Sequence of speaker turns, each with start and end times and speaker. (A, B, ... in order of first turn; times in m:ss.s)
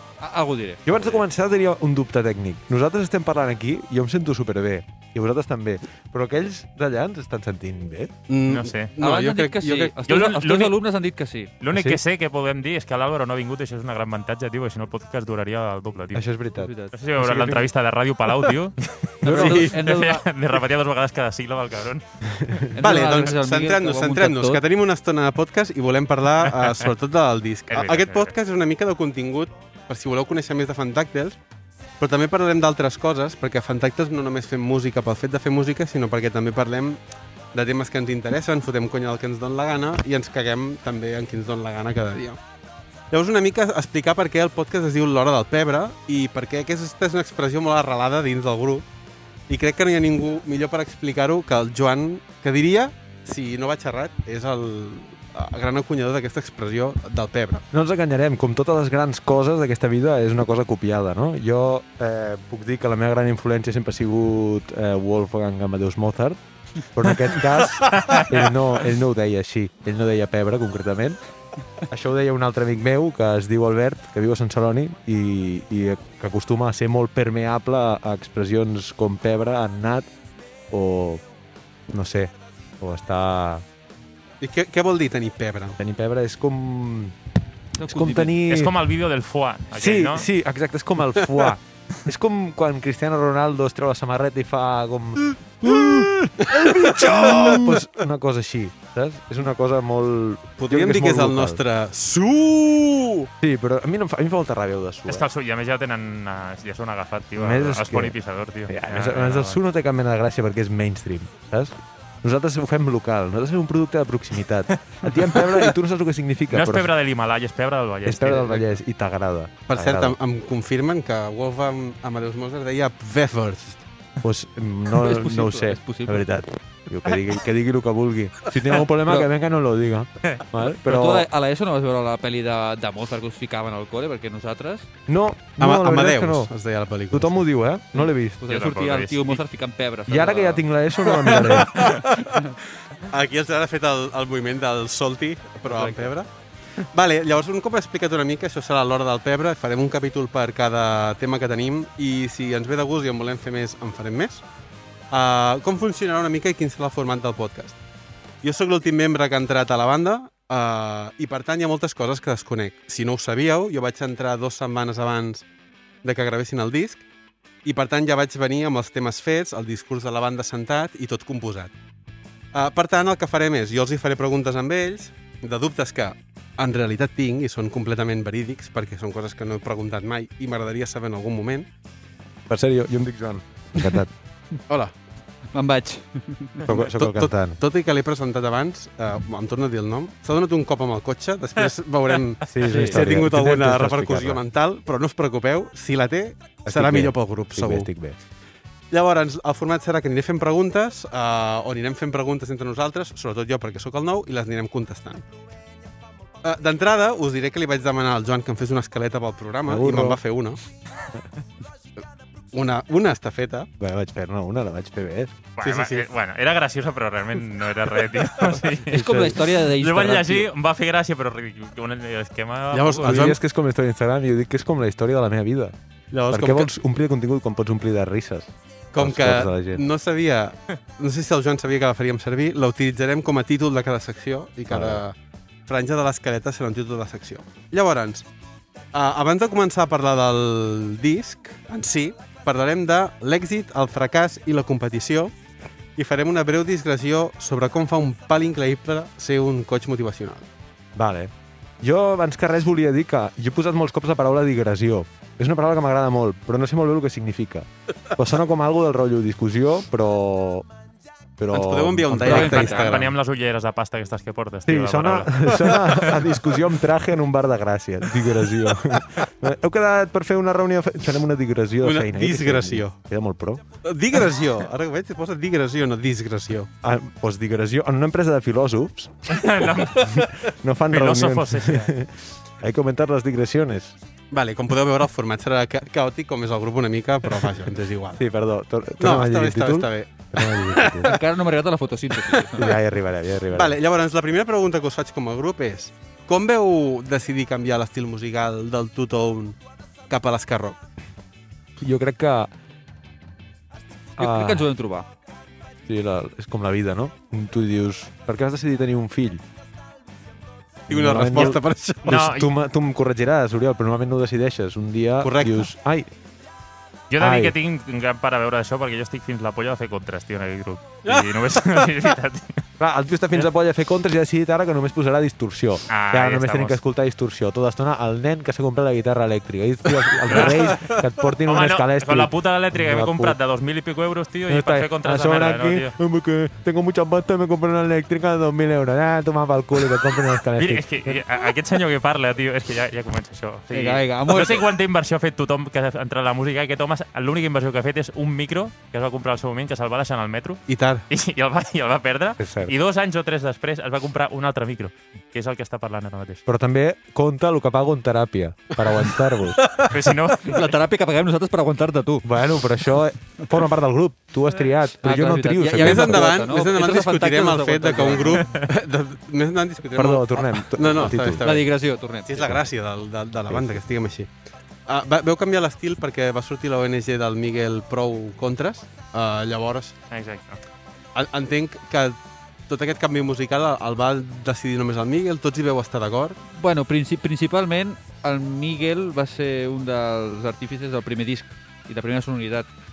0:00.2-0:01.2 A
0:00.9-0:08.1 B
0:08.3-0:09.9 C
0:08.5-0:08.9 D
0:09.0-0:11.5 A
0:10.0-0:10.8 D
0:11.6-0:16.3 D
0:11.7-0:12.0 B
0:16.1-0:17.6 B
0:16.6-0:16.9 A
0:16.9-0:22.6 D
0:19.2-0:20.3 A
0:19.3-0:19.5 B
0:19.3-0:19.7 C
0:22.2-0:22.7 B
0:22.8-0:24.6 A
0:22.8-0:31.4 C
0:26.5-0:26.9 D
0:27.7-0:28.3 D
0:32.0-0:37.0 C
0:37.5-0:42.4 C
0:43.1-0:48.8 C
0:49.5-0:57.6 C
0:57.7-1:11.2 B
1:11.8-1:20.1 B
1:20.7-1:21.2 B
1:21.9-1:23.6 B
1:24.4-1:25.8 C
1:25.8-1:27.2 B
1:27.8-1:28.3 A
1:27.8-1:28.8 B
1:28.5-1:30.3 D
1:29.7-1:41.6 B
1:36.4-1:37.8 C
1:40.6-1:43.3 C
1:43.4-1:45.2 B
1:45.1-1:49.6 D
1:47.4-1:48.2 B
1:48.7-1:56.9 B
1:56.5-1:58.7 D
1:58.0-2:00.2 B
1:59.7-2:03.8 C
2:04.2-2:11.3 B
2:04.9-2:06.3 A
2:09.0-2:09.3 A
2:10.6-2:14.9 A
2:15.1-2:16.5 B
2:15.6-2:17.4 C
2:17.1-2:18.5 B
2:18.0-2:21.1 A
2:18.5-2:19.4 D
2:20.1-2:21.9 B
2:21.4-2:22.2 C
2:23.0-2:34.4 C
2:25.7-2:26.1 A
2:35.1-2:37.8 C
2:38.4-2:45.4 C
2:46.0-2:47.0 C
2:47.6-2:51.7 C
2:52.5-3:01.7 C
3:02.5-3:04.1 B
3:04.7-3:04.9 C
3:05.5-3:06.7 A
3:06.7-3:07.6 B
3:06.7-3:17.9 C
3:12.5-3:14.4 B
3:12.7-3:13.0 A
3:16.7-3:18.2 B
3:18.9-3:25.2 C
3:26.4-3:30.6 C
3:29.7-3:30.2 B
3:32.5-3:33.7 C
3:33.8-3:35.4 B
3:35.6-3:43.4 D
3:35.6-3:36.1 C
3:38.8-3:40.5 A
3:38.9-3:39.4 B
3:42.7-3:43.4 C
3:43.0-3:45.7 B
3:46.1-3:46.7 C
3:46.3-3:49.8 B
3:48.9-3:55.2 C
3:54.7-3:55.0 B
3:55.7-3:58.2 C
3:58.9-4:05.3 C
4:06.0-4:10.4 C
4:11.0-4:20.7 B
4:21.4-4:22.7 B
4:21.5-4:23.1 C
4:22.2-4:26.3 D
4:22.2-4:22.9 A
4:24.6-4:33.6 B
4:31.8-4:32.9 C
4:33.8-4:36.7 C
4:36.8-4:44.0 B
4:39.3-4:41.9 D
4:44.3-4:48.2 C
4:48.2-4:51.1 B
4:49.0-4:51.2 C
4:51.0-4:52.7 A
4:52.4-4:52.8 C
4:52.6-4:53.8 B
4:53.5-4:59.6 C
5:00.1-5:00.8 C
5:01.8-5:02.5 B
5:04.2-5:04.7 B
5:04.2-5:05.0 A
5:05.9-5:09.4 B
5:10.9-5:16.1 B
5:10.9-5:12.2 C
5:11.4-5:12.5 D
5:15.2-5:15.7 C
5:17.1-5:22.6 D
5:17.2-5:17.5 B
5:21.0-5:21.9 C
5:22.8-5:33.4 B
5:25.9-5:26.8 D
5:30.3-5:35.9 D
5:34.5-5:41.3 B
5:40.5-5:56.4 D
5:43.7-5:44.7 A
5:50.7-5:51.0 C
5:52.4-5:52.7 B
5:56.5-5:59.7 B
5:59.5-6:00.6 C
5:59.9-6:00.6 D
6:00.4-6:02.3 A
6:02.2-6:06.4 B
6:05.0-6:08.5 A
6:05.8-6:11.7 C
6:10.0-6:11.4 B
6:11.4-6:12.5 A
6:12.3-6:14.3 C
6:13.5-6:13.8 B
6:14.9-6:20.0 C
6:20.1-6:20.6 D
6:21.1-6:26.4 C
6:26.5-6:32.7 A